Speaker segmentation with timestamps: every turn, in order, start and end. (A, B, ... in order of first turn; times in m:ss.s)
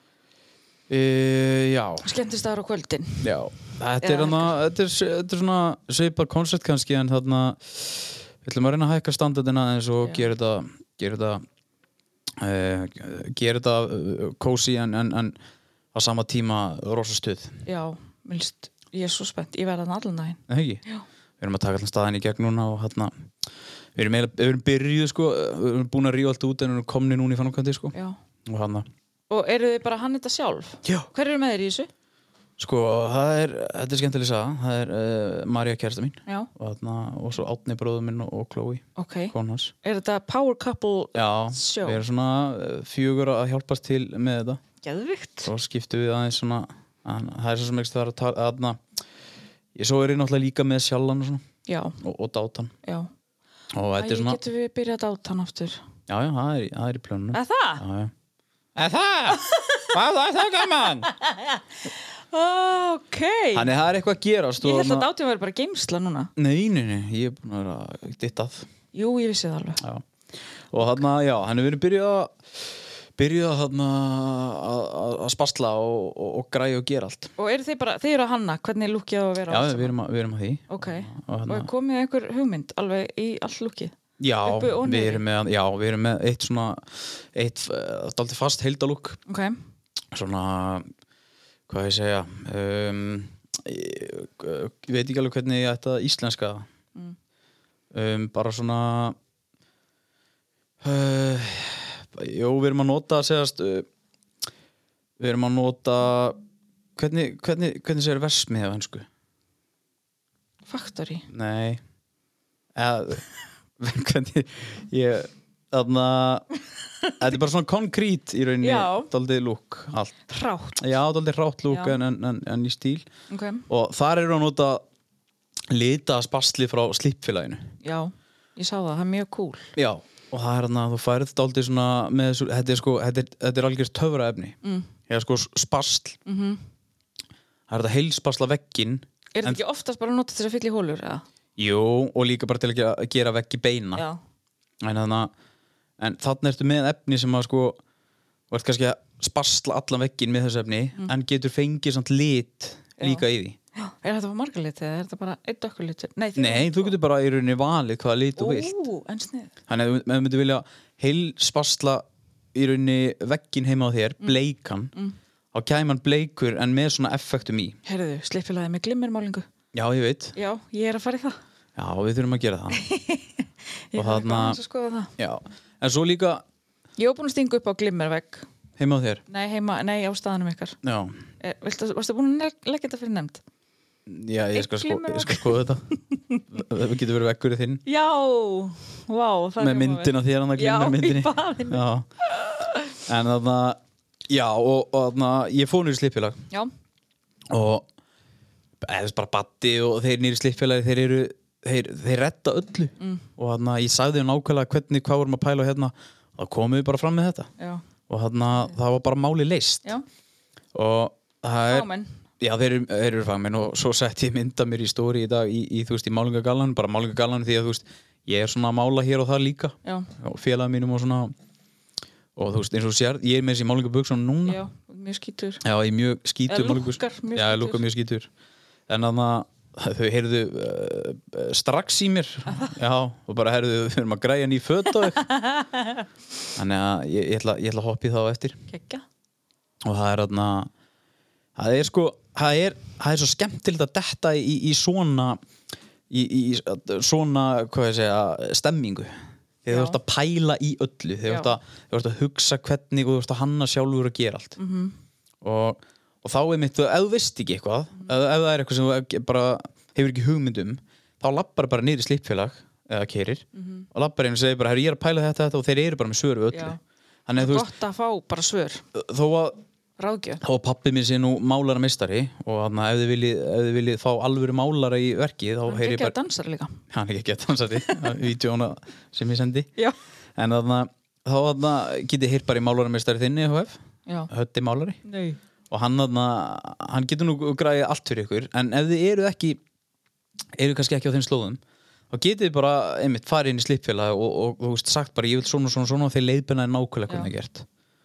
0:00.9-0:02.1 A
0:02.0-0:03.3 B
0:03.2-0:11.4 A
0:04.0-0:04.6 B
0:12.4-0:15.3 A
0:15.9-0:17.6 A
0:17.6-0:21.0 B
0:20.5-0:20.8 A
0:21.4-0:23.2 A
0:24.0-0:27.9 A
0:28.4-0:28.9 A
0:29.3-0:31.9 B
0:32.6-0:39.7 A
0:39.0-0:42.0 B
0:41.1-0:44.6 A
0:44.8-0:45.5 B
0:45.4-0:48.8 A
0:49.8-0:51.4 A
0:51.6-0:52.0 B
0:52.0-0:52.7 A
0:52.8-0:53.1 B
0:53.7-0:54.4 A
0:54.0-0:55.8 B
0:56.1-0:58.1 A
0:57.3-0:57.8 B
0:58.8-1:01.1 A
0:59.3-0:59.9 B
1:01.1-1:01.6 B
1:02.3-1:03.7 B
1:03.5-1:05.1 A
1:04.6-1:06.3 B
1:06.4-1:08.7 A
1:08.9-1:09.8 B
1:10.7-1:12.6 A
1:13.2-1:17.3 A
1:17.4-1:19.9 B
1:19.5-1:21.7 A
1:20.7-1:23.9 B
1:24.2-1:29.2 A
1:24.4-1:25.2 B
1:29.3-1:29.6 B
1:30.1-1:30.9 A
1:31.7-1:36.6 A
1:37.9-1:39.2 A
1:40.8-1:43.8 A
1:45.2-1:46.4 A
1:47.0-1:49.1 A
1:50.7-1:51.3 B
1:51.3-1:51.8 A
1:52.7-1:53.2 A
1:53.8-1:56.4 A
1:57.2-2:00.2 A
1:58.6-1:59.1 B
2:00.3-2:00.8 B
2:00.8-2:03.0 A
2:01.7-2:02.0 B
2:03.3-2:03.6 B
2:03.7-2:04.8 A
2:05.7-2:07.7 A
2:07.8-2:09.7 B
2:09.8-2:14.6 A
2:14.6-2:14.9 B
2:15.1-2:16.2 A
2:16.2-2:16.6 B
2:17.7-2:19.6 A
2:19.3-2:21.2 B
2:21.6-2:24.0 A
2:24.8-2:25.3 A
2:26.0-2:27.8 A
2:28.5-2:33.6 A
2:33.0-2:36.9 B
2:36.4-2:38.8 A
2:38.4-2:39.5 B
2:39.7-2:44.9 A
2:45.5-2:47.8 A
2:47.8-2:49.5 B
2:49.7-2:50.3 A
2:50.3-2:51.4 B
2:51.8-2:52.8 A
2:52.7-2:55.1 B
2:54.0-2:54.6 A
2:55.2-2:56.4 A
2:57.0-2:58.4 B
2:58.8-2:59.2 A
2:59.3-3:00.8 B
3:00.8-3:01.2 A
3:01.4-3:03.4 B
3:04.0-3:05.8 A
3:04.5-3:06.4 B
3:06.5-3:07.8 A
3:07.8-3:12.9 B
3:09.6-3:12.1 A
3:13.1-3:16.4 A
3:17.5-3:17.9 A
3:18.8-3:27.5 A
3:23.0-3:23.2 B
3:28.1-3:29.8 A
3:30.7-3:31.9 A
3:31.7-3:32.2 B
3:32.4-3:41.3 A
3:42.4-3:44.6 A
3:44.4-3:45.6 B
3:45.6-3:48.3 A
3:46.5-3:47.8 B
3:48.9-3:55.2 A
3:55.1-3:56.0 B
3:56.6-3:58.6 A
3:58.7-3:59.0 B
3:59.8-4:00.7 A
4:01.6-4:05.4 A
4:06.1-4:14.6 A
4:09.7-4:10.0 B
4:11.3-4:11.5 B
4:14.6-4:14.9 B
4:15.4-4:27.7 A
4:23.5-4:23.9 B
4:26.5-4:26.8 B
4:27.4-4:28.8 B
4:28.9-4:29.6 A
4:30.0-4:30.4 B
4:30.4-4:36.1 A
4:35.6-4:36.8 B
4:36.9-4:39.7 A
4:37.8-4:38.1 B
4:40.4-4:43.8 A
4:44.3-4:45.0 A
4:45.0-4:45.4 B
4:45.7-4:49.6 A
4:50.6-4:57.6 A